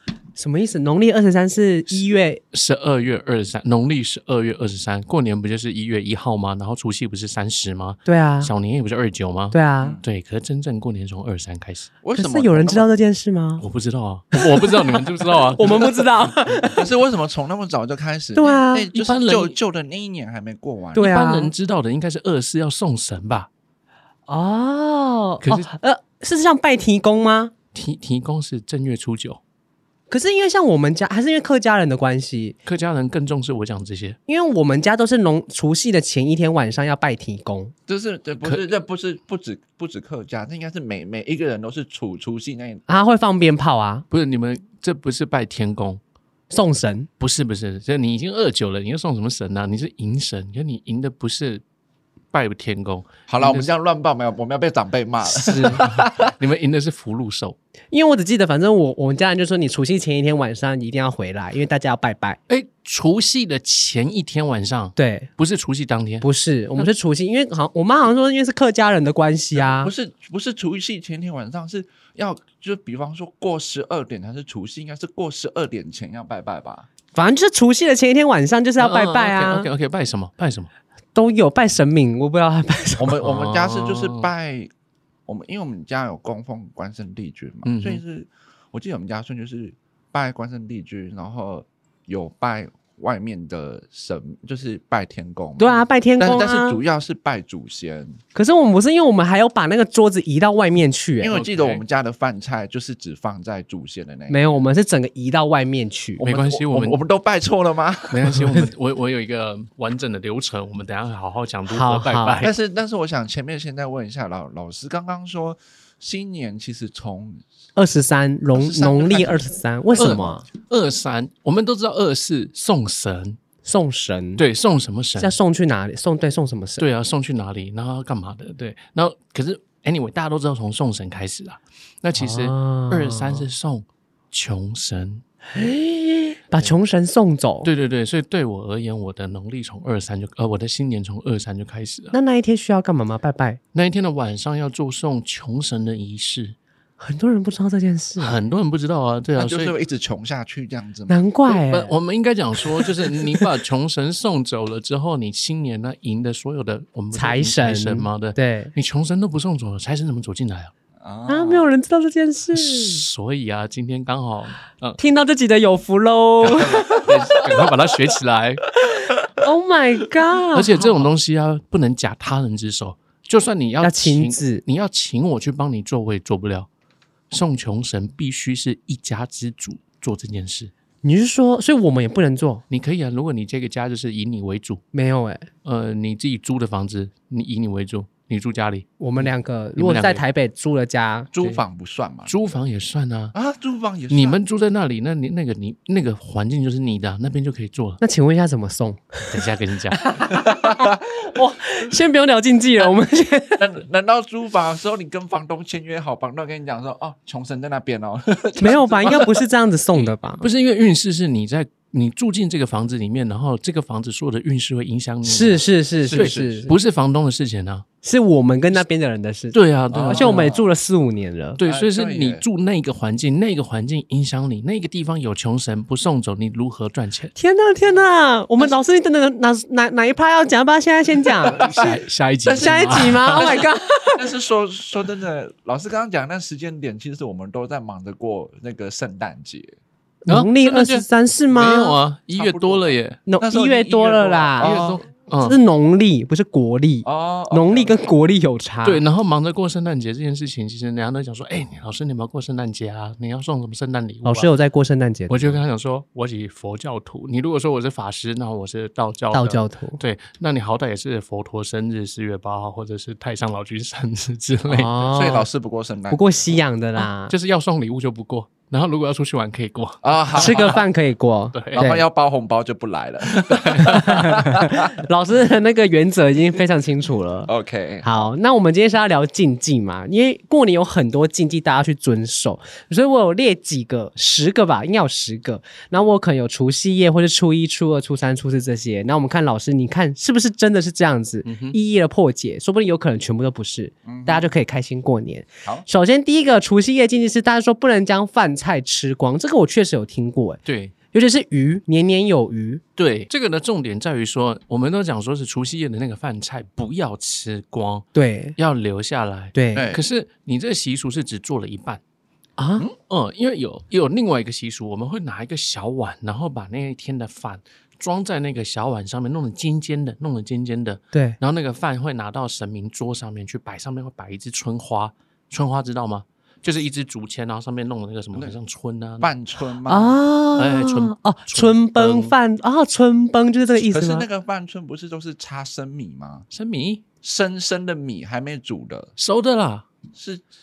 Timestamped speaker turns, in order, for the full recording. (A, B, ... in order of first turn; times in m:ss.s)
0:00.4-0:02.4 A
0:02.5-0:11.9 B
0:08.0-0:08.5 A
0:09.5-0:10.0 A
0:12.0-0:12.9 C
0:12.1-0:13.6 A
0:13.6-0:15.9 B
0:14.3-0:16.8 A
0:16.6-0:21.1 C
0:18.4-0:18.9 A
0:18.9-0:19.5 B
0:21.0-0:21.5 A
0:21.0-0:23.5 B
0:24.3-0:27.5 A
0:25.4-0:25.7 B
0:27.7-0:29.4 B
0:30.1-0:32.6 A
0:32.6-0:34.2 B
0:34.3-0:37.7 A
0:37.9-0:42.8 C
0:38.4-0:38.7 B
0:42.9-0:44.0 A
0:44.1-0:46.0 B
0:46.5-0:47.1 A
0:47.2-0:51.6 B
0:52.3-0:53.7 B
0:53.3-0:56.3 C
0:55.3-0:57.6 B
0:57.9-1:02.4 A
1:02.5-1:06.2 B
1:05.0-1:05.3 A
1:06.2-1:09.9 A
1:09.5-1:16.9 C
1:17.1-1:19.7 A
1:18.8-1:20.7 B
1:21.1-1:23.2 A
1:23.0-1:24.7 C
1:23.2-1:24.3 B
1:25.3-1:38.2 C
1:27.6-1:28.0 B
1:35.6-1:36.8 A
1:38.3-1:41.3 A
1:41.2-1:44.4 C
1:41.3-1:41.8 B
1:44.3-1:46.2 A
1:46.2-1:48.5 C
1:46.2-1:47.0 B
1:48.1-1:48.7 A
1:48.1-1:52.5 B
1:51.7-1:52.4 A
1:52.4-1:57.4 C
1:57.8-2:00.4 A
1:58.5-1:59.4 C
2:00.0-2:00.3 C
2:00.0-2:03.4 B
2:03.6-2:04.4 A
2:04.4-2:05.3 B
2:05.2-2:06.8 A
2:06.8-2:15.2 B
2:12.2-2:13.5 A
2:15.5-2:17.7 A
2:17.6-2:22.1 B
2:22.1-2:23.6 A
2:23.7-2:26.6 B
2:27.0-2:28.4 A
2:28.2-2:29.7 B
2:29.4-2:31.2 C
2:31.1-2:31.9 A
2:31.5-2:40.7 B
2:37.1-2:38.7 A
2:41.0-2:41.7 C
2:41.3-2:43.0 A
2:42.5-2:45.0 B
2:45.0-2:47.1 A
2:46.4-2:47.7 C
2:46.5-2:48.7 B
2:49.2-2:51.0 A
2:50.5-2:56.7 B
2:53.8-2:54.6 A
2:57.3-3:00.7 B
3:01.0-3:02.6 A
3:02.7-3:04.8 B
3:04.9-3:05.5 A
3:05.6-3:10.2 B
3:09.0-3:11.3 A
3:11.3-3:12.3 C
3:12.3-3:13.3 B
3:13.3-3:14.4 C
3:14.1-3:18.0 B
3:18.0-3:19.4 A
3:19.3-3:20.0 B
3:19.9-3:23.7 A
3:20.3-3:21.0 C
3:23.6-3:29.4 C
3:28.6-3:30.4 A
3:29.9-3:37.8 B
3:35.2-3:36.7 A
3:36.0-3:36.7 C
3:38.0-3:39.6 A
3:39.5-3:40.5 B
3:39.9-3:40.7 C
3:40.1-3:41.6 A
3:41.6-3:47.3 B
3:41.6-3:42.4 C
3:47.4-3:51.6 A
3:51.6-3:53.5 B
3:51.6-3:59.7 C
3:52.6-3:54.2 A
4:00.2-4:02.0 A
4:00.3-4:03.2 B
4:02.3-4:05.0 C
4:03.3-4:04.8 A
4:04.6-4:05.6 B
4:05.4-4:09.0 A
4:07.0-4:08.0 C
4:08.8-4:14.5 B
4:14.2-4:15.6 A
4:15.3-4:25.0 B
4:19.3-4:20.0 A
4:24.7-4:25.5 A
4:25.0-4:26.2 C
4:26.1-4:27.3 A
4:27.0-4:30.8 B
4:30.0-4:30.8 C
4:30.3-4:32.0 A
4:31.5-4:31.8 B
4:31.7-4:34.9 C
4:33.2-4:34.4 B
4:33.8-4:37.5 A
4:37.5-4:38.2 C
4:38.0-5:00.6 A
4:51.4-4:51.8 B
4:54.0-4:54.5 C
5:00.6-5:00.9 B
5:01.1-5:02.8 A
5:03.0-5:12.0 B
5:08.1-5:08.6 A
5:09.5-5:09.9 A
5:09.7-5:10.0 C
5:12.6-5:12.9 A
5:13.1-5:29.3 B
5:29.2-5:30.2 C
5:29.9-5:34.3 A
5:30.6-5:32.3 B
5:33.8-5:36.5 C
5:36.5-5:37.0 B
5:37.2-5:39.1 C
5:39.2-5:39.8 B
5:40.1-5:40.4 C